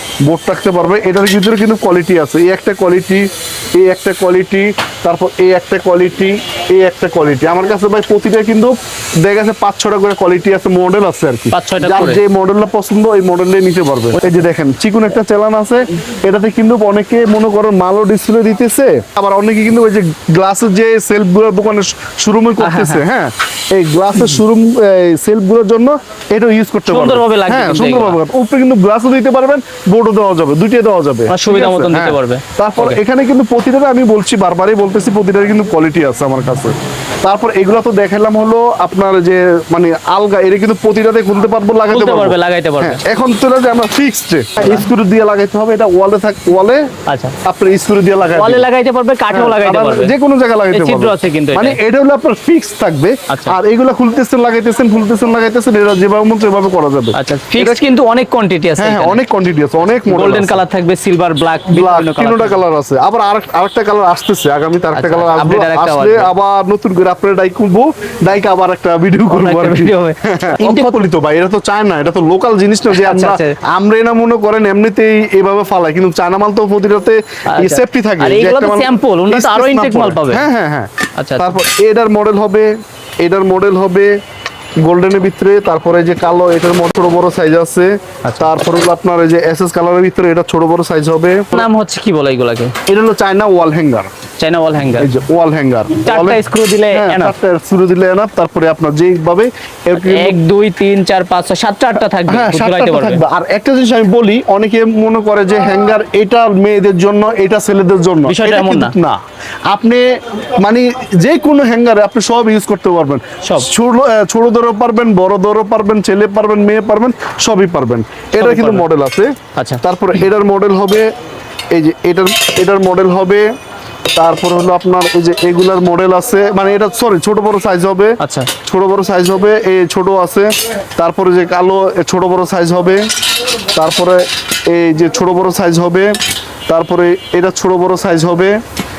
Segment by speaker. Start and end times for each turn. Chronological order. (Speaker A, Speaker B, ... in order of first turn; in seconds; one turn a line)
Speaker A: 0.2-46.9
Speaker B: 11.5-12.2
Speaker B: 22.6-23.0
Speaker B: 26.9-28.2
Speaker B: 31.3-33.0
Speaker B: 41.9-43.0
Speaker B: 47.1-47.3
Speaker A: 47.4-48.7
Speaker B: 48.4-50.1
Speaker A: 49.3-57.9
Speaker B: 50.7-51.8
Speaker B: 53.3-53.6
Speaker B: 57.1-59.2
Speaker A: 58.8-60.6
Speaker B: 60.1-62.6
Speaker A: 61.7-84.2
Speaker B: 64.9-66.3
Speaker B: 69.3-71.1
Speaker B: 72.9-73.6
Speaker B: 77.5-80.5
Speaker B: 81.2-81.6
Speaker A: 84.8-91.7
Speaker B: 88.2-88.5
Speaker B: 91.5-92.8
Speaker A: 92.9-94.1
Speaker B: 94.4-95.1
Speaker A: 95.0-100.4
Speaker B: 96.0-97.3
Speaker B: 100.0-103.2
Speaker A: 102.3-121.1
Speaker B: 108.3-108.9
Speaker B: 113.4-113.7
Speaker B: 118.4-118.9
Speaker B: 119.5-119.8
Speaker A: 121.7-123.5
Speaker A: 124.2-133.1
Speaker B: 128.2-128.5
Speaker A: 133.7-138.6